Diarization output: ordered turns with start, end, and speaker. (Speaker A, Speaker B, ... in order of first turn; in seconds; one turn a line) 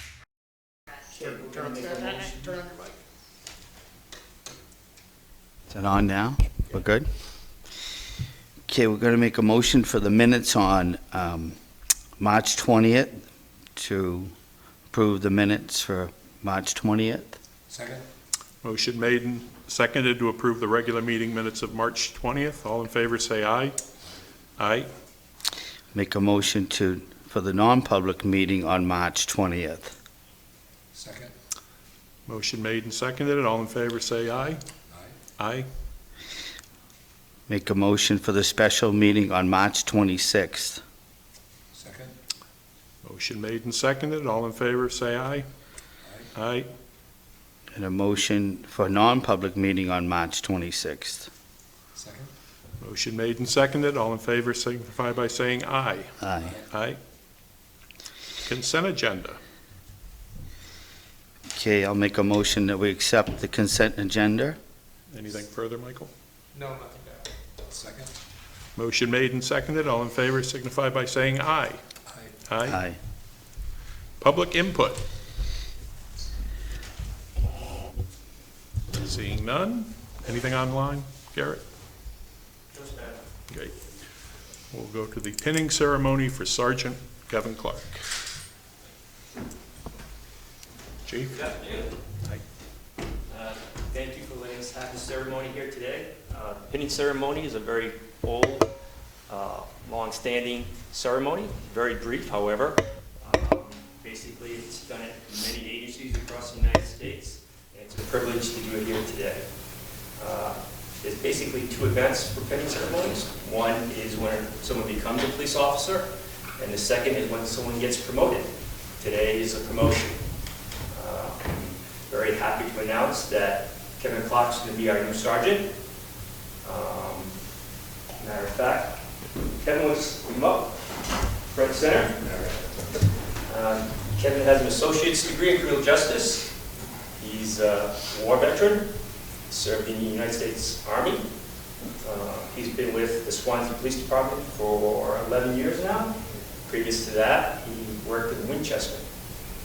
Speaker A: 1.1-2.6
Speaker B: 1.5-2.8
Speaker C: 5.7-7.1
Speaker C: 8.7-11.6
Speaker C: 12.2-13.2
Speaker C: 13.8-14.3
Speaker C: 14.9-17.4
Speaker B: 17.7-18.1
Speaker D: 18.6-23.8
Speaker D: 24.6-24.9
Speaker C: 25.9-29.9
Speaker B: 30.9-31.3
Speaker D: 32.3-34.6
Speaker B: 34.9-35.2
Speaker D: 35.4-35.7
Speaker C: 37.5-40.8
Speaker B: 41.7-42.1
Speaker D: 43.0-45.5
Speaker B: 46.0-46.3
Speaker D: 46.3-46.7
Speaker C: 47.7-51.3
Speaker B: 51.9-52.3
Speaker D: 52.8-56.2
Speaker C: 56.2-56.6
Speaker D: 56.7-57.0
Speaker D: 58.4-59.4
Speaker C: 61.5-64.6
Speaker D: 65.1-66.1
Speaker B: 66.5-68.1
Speaker D: 68.8-71.8
Speaker B: 72.0-72.4
Speaker D: 72.5-72.8
Speaker C: 72.6-73.0
Speaker D: 74.2-75.0
Speaker D: 78.9-81.6
Speaker A: 82.7-83.2
Speaker D: 84.7-88.0
Speaker D: 91.0-91.3
Speaker A: 91.3-91.9
Speaker A: 93.3-98.7
Speaker A: 99.3-109.5
Speaker A: 110.2-120.2
Speaker A: 120.9-125.7
Speaker A: 126.6-127.4
Speaker A: 128.2-129.0
Speaker A: 129.6-130.8
Speaker A: 131.5-132.6
Speaker A: 133.5-136.5
Speaker A: 137.2-138.9
Speaker A: 139.5-141.2
Speaker A: 142.0-149.1